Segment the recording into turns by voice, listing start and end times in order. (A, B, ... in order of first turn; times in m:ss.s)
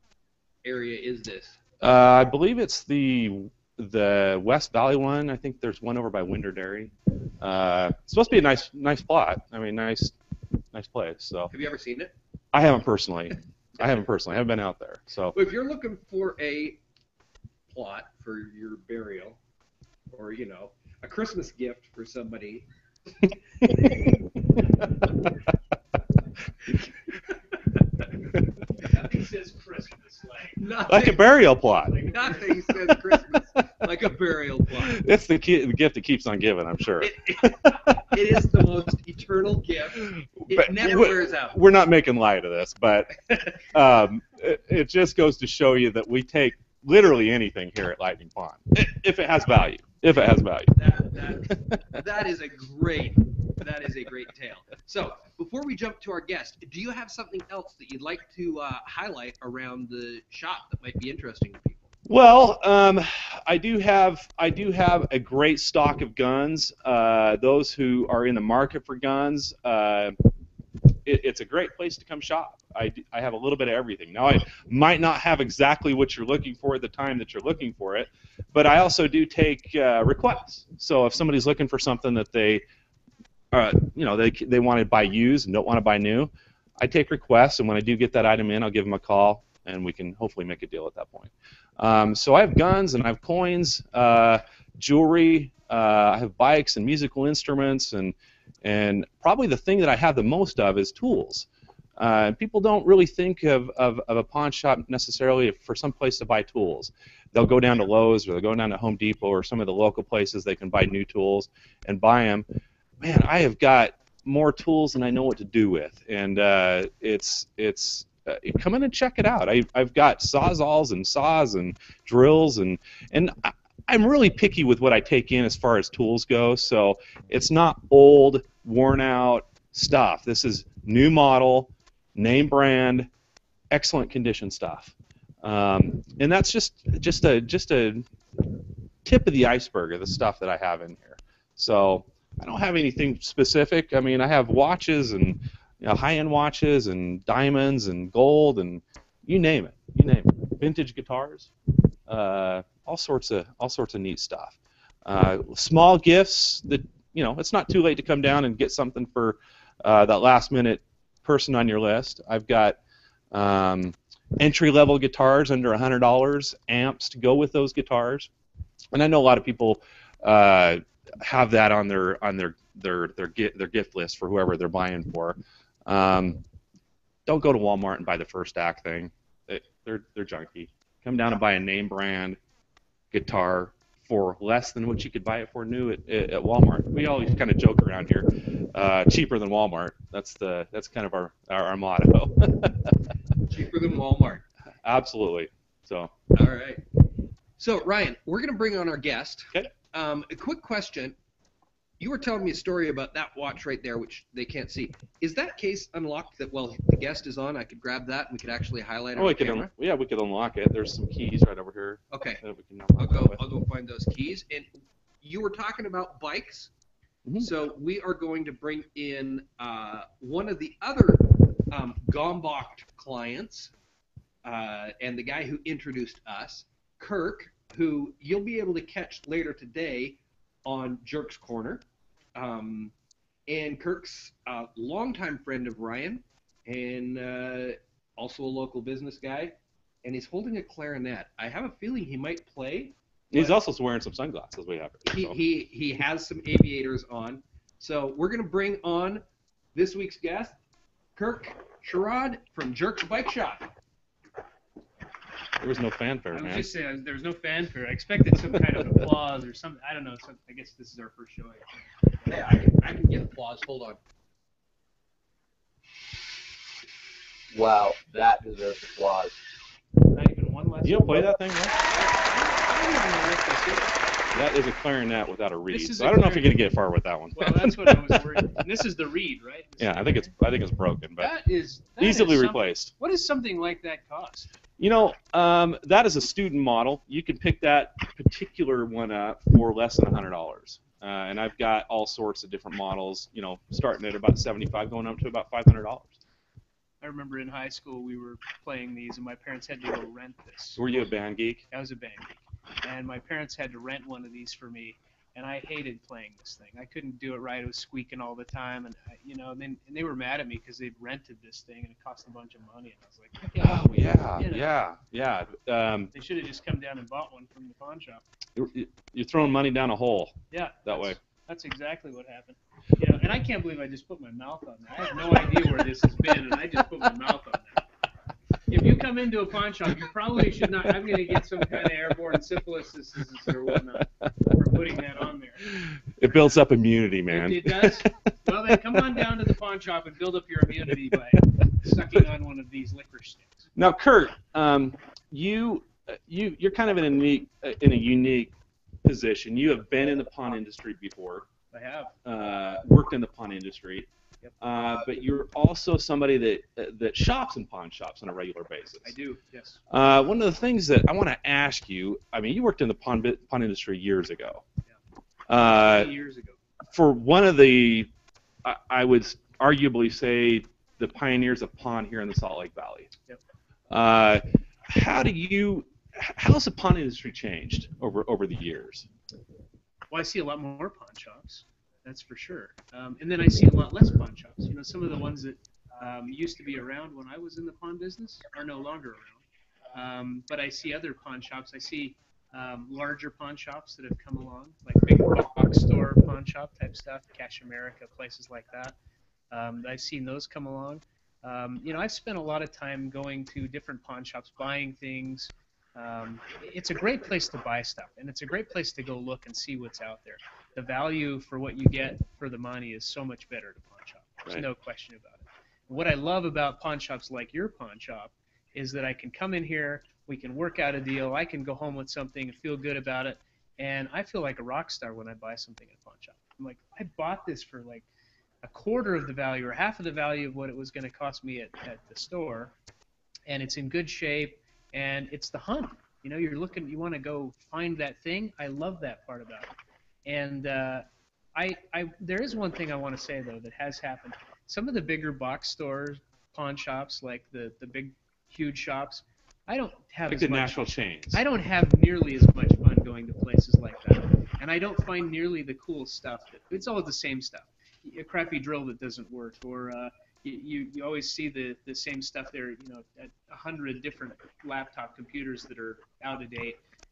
0:00.6-0:01.6 A
0:01.8-0:10.2 B
0:10.7-0:11.5 B
0:11.5-0:12.1 A
0:12.5-0:15.3 B
0:15.3-0:16.8 A
0:17.7-0:19.4 A
0:20.1-0:22.6 A
0:23.8-0:24.1 B
0:28.8-0:30.7 C
0:30.6-0:31.2 A
0:30.8-0:32.0 B
0:31.8-0:32.8 C
0:32.1-0:35.0 A
0:34.8-0:38.0 B
0:37.0-0:41.6 A
0:40.0-0:50.8 B
0:50.8-1:01.9 A
0:51.5-0:51.8 B
1:02.0-1:10.2 B
1:11.0-1:22.6 B
1:23.5-1:52.4 B
1:53.0-2:13.1 B
2:13.7-2:31.5 B
2:32.1-2:42.8 B
2:43.3-2:48.3 B
2:48.9-2:56.4 B
2:57.2-3:02.4 B
3:03.1-3:13.0 B
3:13.4-3:14.4 A
3:14.8-3:16.1 B
3:16.3-3:16.8 A
3:17.6-3:21.2 A
3:22.0-3:29.7 A
3:29.2-3:33.4 B
3:32.1-3:32.4 A
3:33.0-3:34.7 A
3:35.2-3:36.7 A
3:37.4-3:43.7 A
3:44.4-3:51.8 A
3:52.4-3:52.9 A
3:53.5-4:03.5 A
4:03.3-4:05.4 B
4:05.1-4:09.2 A
4:09.7-4:10.6 A
4:11.2-4:13.7 A
4:15.6-4:16.7 B
4:16.3-4:21.8 C
4:22.2-4:24.0 A
4:27.5-4:29.3 A
4:30.0-4:34.0 C
4:30.8-4:31.7 B
4:34.3-4:38.8 B
4:35.7-4:36.6 C
4:37.3-4:40.3 C
4:39.8-4:41.3 B
4:41.2-4:44.5 C
4:42.0-4:42.9 B
4:44.8-4:56.2 B
4:57.0-5:00.8 C
5:00.8-5:01.6 B
5:01.7-5:14.8 C
5:13.6-5:16.1 B
5:16.1-5:18.2 C
5:18.6-5:21.2 B
5:20.5-5:27.8 C
5:28.7-5:35.8 C
5:35.6-5:38.2 B
5:37.3-5:43.7 C
5:38.7-5:39.2 B
5:43.8-5:51.5 B
5:51.7-5:52.1 C
5:52.2-5:54.1 B
5:54.6-5:59.1 B
5:59.0-5:59.8 C
5:59.9-6:04.6 B
6:05.5-6:06.1 B
6:05.5-6:06.6 C
6:06.9-6:08.1 B
6:08.6-6:13.1 B
6:13.9-6:19.1 B
6:20.1-6:39.0 C
6:39.5-7:08.0 C
7:08.6-7:12.7 C
7:13.5-7:19.7 C
7:20.2-7:46.8 C
7:30.3-7:31.4 B